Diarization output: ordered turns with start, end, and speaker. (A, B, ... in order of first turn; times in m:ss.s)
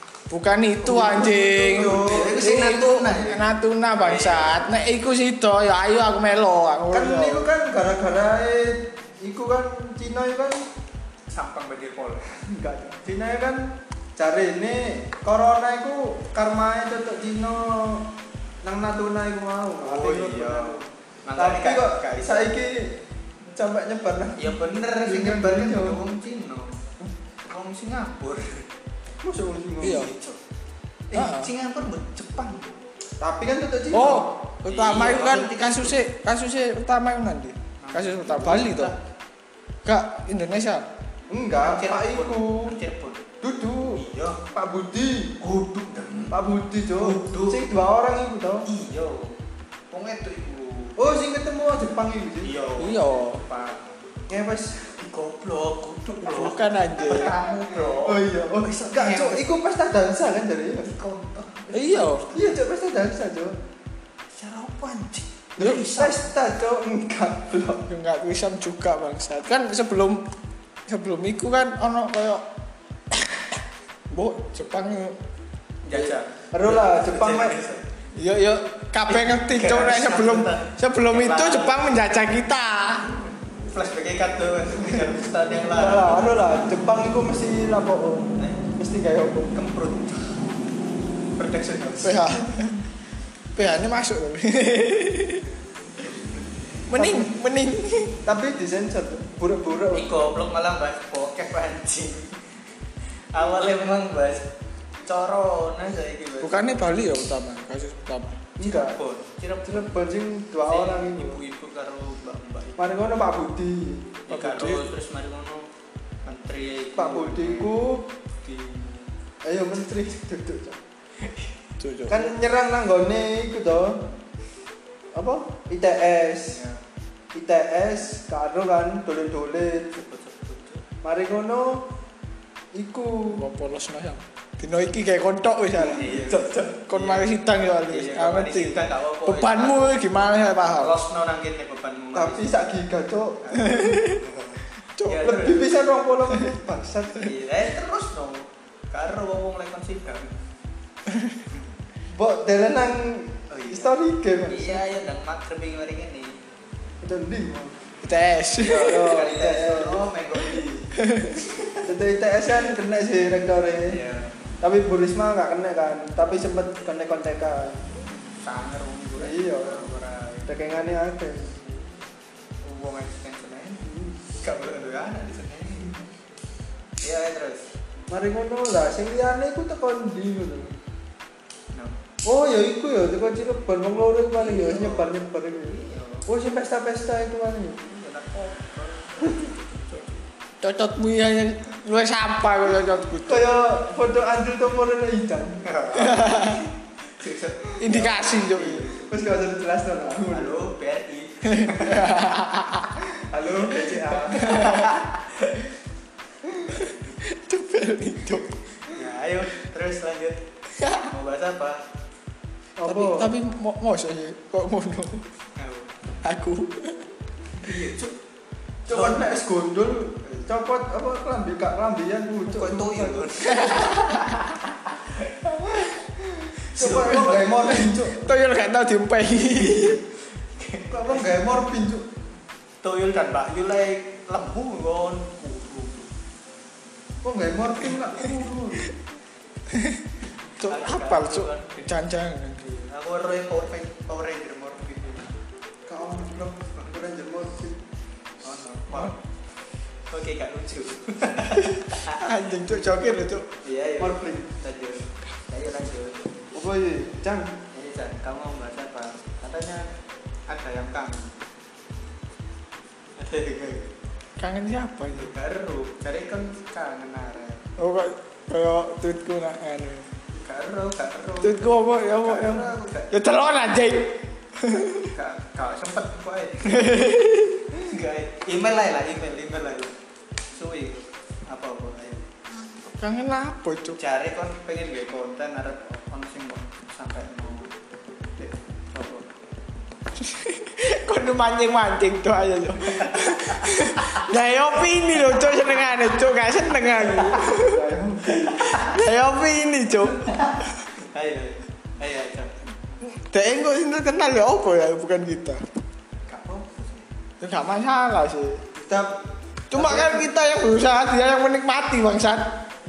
0:00.3-0:07.5 A
0:00.8-0:02.5 B
0:01.9-0:04.7 C
0:06.9-0:10.7 B
0:11.3-0:12.2 C
0:12.5-0:18.1 B
0:18.6-0:23.0 B
0:19.8-0:22.5 C
0:23.5-0:26.0 B
0:24.4-0:26.8 C
0:27.4-0:28.7 C
0:29.2-0:30.1 B
0:29.8-0:30.1 A
0:29.8-0:30.4 C
0:31.1-0:32.8 C
0:31.1-0:31.5 A
0:33.2-0:34.4 B
0:33.9-0:38.9 A
0:34.7-0:36.0 C
0:37.8-0:39.0 C
0:39.8-0:40.8 A
0:41.3-0:42.8 B
0:41.6-0:43.2 C
0:43.4-0:45.4 B
0:44.0-0:44.4 C
0:45.4-0:46.4 C
0:46.3-0:48.7 B
0:47.0-0:47.6 C
0:48.7-0:49.4 C
0:49.9-0:51.1 C
0:51.0-0:52.6 B
0:52.4-0:54.0 C
0:52.8-0:53.4 A
0:54.3-0:55.0 B
0:55.0-0:59.6 C
0:56.2-0:57.4 A
0:57.2-1:00.9 B
1:00.9-1:02.6 C
1:01.7-1:02.3 A
1:02.3-1:03.6 B
1:04.3-1:06.2 C
1:05.9-1:07.8 B
1:07.8-1:10.3 A
1:10.9-1:12.4 A
1:13.1-1:15.2 A
1:15.8-1:17.9 C
1:15.9-1:17.6 B
1:18.2-1:23.1 A
1:19.1-1:21.9 C
1:23.7-1:26.2 C
1:25.6-1:29.5 B
1:29.5-1:30.4 C
1:31.4-1:32.4 C
1:32.0-1:32.8 A
1:33.6-1:35.5 A
1:36.9-1:38.2 A
1:37.0-1:37.3 B
1:38.2-1:40.2 B
1:39.9-1:42.4 C
1:43.3-1:44.5 C
1:45.0-1:46.7 C
1:46.4-1:48.4 A
1:48.6-1:49.0 B
1:48.6-1:49.9 C
1:49.7-1:51.4 B
1:50.7-1:52.8 C
1:52.8-1:54.2 B
1:54.3-1:55.7 C
1:54.3-1:54.9 A
1:56.2-1:57.8 C
1:57.0-1:58.1 B
1:58.4-1:59.1 C
1:59.4-2:00.8 B
2:01.2-2:01.5 C
2:01.8-2:02.3 A
2:02.1-2:04.1 B
2:05.1-2:06.6 B
2:06.5-2:06.8 C
2:07.3-2:09.9 B
2:09.9-2:10.8 C
2:11.0-2:11.9 B
2:12.7-2:13.4 B
2:13.4-2:16.3 A
2:15.7-2:17.3 C
2:16.2-2:16.8 B
2:16.9-2:21.0 A
2:17.9-2:20.0 C
2:20.6-2:22.5 C
2:22.1-2:23.8 B
2:23.4-2:25.7 C
2:23.5-2:24.2 A
2:25.0-2:25.3 A
2:25.1-2:27.3 B
2:27.2-2:30.3 C
2:31.1-2:31.4 A
2:32.1-2:34.8 B
2:33.5-2:33.9 C
2:34.4-2:36.4 C
2:37.0-2:37.8 B
2:38.0-2:39.1 A
2:38.6-2:40.0 B
2:38.7-2:40.9 C
2:41.0-2:41.6 A
2:41.6-2:41.8 C
2:41.8-2:44.0 B
2:43.9-2:44.4 C
2:44.6-2:47.8 B
2:48.4-2:50.5 C
2:49.2-2:49.9 B
2:50.5-2:51.6 B
2:52.6-2:56.1 C
2:53.9-2:54.2 B
2:57.0-2:57.7 C
2:58.1-3:00.8 B
3:01.7-3:02.0 C
3:02.2-3:07.8 B
3:04.4-3:06.3 C
3:07.8-3:10.2 C
3:10.6-3:13.5 A
3:13.3-3:15.7 B
3:15.6-3:16.6 C
3:15.9-3:16.7 A
3:17.2-3:19.2 C
3:17.8-3:18.9 A
3:19.1-3:20.6 B
3:20.3-3:22.1 C
3:21.4-3:22.9 A
3:23.2-3:24.7 B
3:24.3-3:25.6 C
3:24.4-3:24.9 A
3:26.7-3:27.1 C
3:26.8-3:28.6 A
3:28.8-3:30.4 C
3:30.8-3:31.1 A
3:31.0-3:31.8 C
3:32.8-3:33.3 B
3:32.9-3:35.3 A
3:35.6-3:35.9 C
3:36.2-3:37.1 A
3:37.6-3:38.2 C
3:38.9-3:43.4 B
3:38.9-3:39.3 C
3:42.5-3:44.4 C
3:43.5-3:44.6 A
3:45.0-3:45.3 C
3:45.8-3:48.3 B
3:46.7-3:47.7 C
3:48.0-3:50.0 A
3:49.4-3:51.4 C
3:50.9-3:52.1 B
3:52.8-3:56.1 C
3:57.2-3:58.9 B
3:59.7-4:00.1 A
4:00.6-4:02.8 A
4:00.6-4:02.0 C
4:02.8-4:05.3 C
4:05.9-4:07.8 B
4:08.4-4:09.2 C
4:10.1-4:16.3 C
4:11.6-4:13.5 A
4:14.0-4:14.5 B
4:16.5-4:17.6 B
4:17.7-4:19.9 C
4:20.5-4:21.4 C
4:23.2-4:23.9 C
4:24.4-4:25.3 A
4:25.1-4:27.7 C
4:27.8-4:30.1 A
4:30.3-4:33.1 C
4:31.4-4:35.1 A
4:35.0-4:37.0 C
4:36.6-4:37.6 A
4:37.8-4:39.9 C
4:40.5-4:42.3 C
4:42.8-4:44.0 A
4:44.0-4:47.7 C
4:48.4-4:49.3 C
4:50.2-4:57.8 A
4:52.8-4:53.7 C
4:57.0-4:57.6 C
4:57.4-4:58.8 B
4:58.4-5:00.8 A
4:58.6-4:59.0 C
5:00.2-5:02.5 C
5:03.0-5:05.6 A
5:06.3-5:07.1 C
5:07.4-5:08.6 A
5:08.8-5:09.2 B
5:09.7-5:12.6 A
5:09.7-5:10.3 B